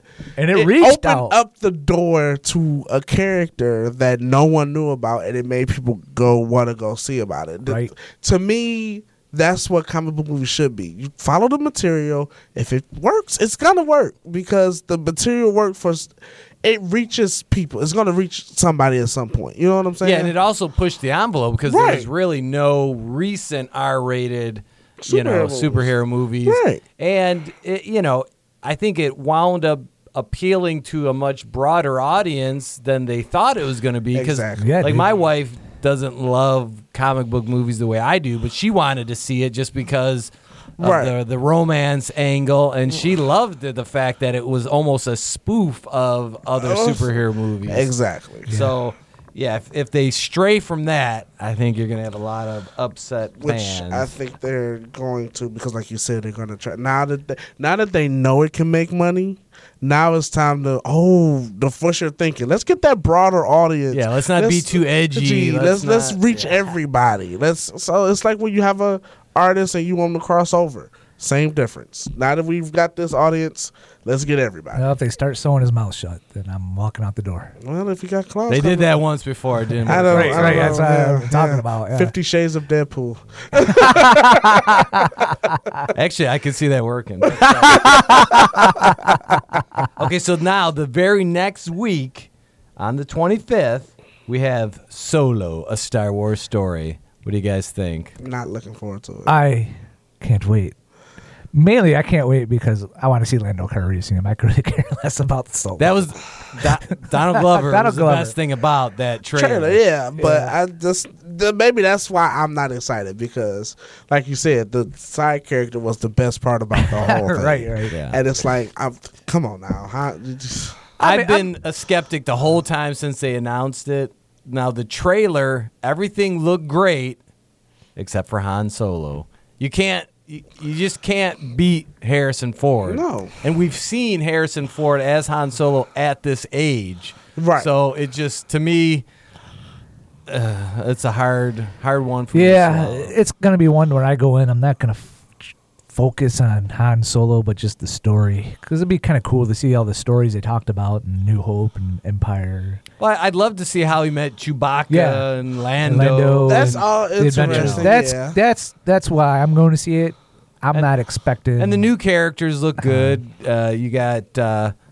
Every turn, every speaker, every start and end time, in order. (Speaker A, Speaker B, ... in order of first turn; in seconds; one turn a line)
Speaker A: 0.4-1.4
Speaker B: 0.5-20.3
Speaker C: 20.0-47.9
Speaker B: 21.6-22.1
Speaker B: 25.0-25.9
Speaker B: 26.4-26.8
Speaker B: 34.1-35.0
Speaker A: 34.6-35.0
Speaker B: 40.8-41.1
Speaker B: 46.5-47.1
Speaker B: 47.7-48.5
Speaker C: 48.5-54.1
Speaker A: 48.5-48.7
Speaker B: 53.4-74.8
Speaker C: 63.9-66.7
Speaker A: 74.7-77.5
Speaker B: 77.6-79.0
Speaker C: 78.5-80.8
Speaker B: 79.8-85.0
Speaker A: 80.0-82.1
Speaker A: 83.6-85.9
Speaker C: 85.9-88.8
Speaker A: 87.4-89.9
Speaker B: 87.7-88.2
Speaker C: 90.0-98.1
Speaker B: 98.2-99.3
Speaker A: 99.2-100.7
Speaker A: 101.5-108.3
Speaker C: 105.8-109.8
Speaker B: 109.3-120.9
Speaker A: 110.2-110.5
Speaker A: 116.8-117.9
Speaker C: 117.9-118.2
Speaker C: 121.0-127.2
Speaker A: 121.0-121.5
Speaker C: 128.0-139.1
Speaker B: 132.8-133.3
Speaker B: 137.4-137.7
Speaker C: 140.3-143.1
Speaker A: 142.3-152.8
Speaker C: 153.0-156.8
Speaker A: 154.9-155.2
Speaker A: 155.8-161.9
Speaker B: 156.4-158.4
Speaker C: 157.4-157.9
Speaker C: 161.6-164.7
Speaker A: 162.8-163.2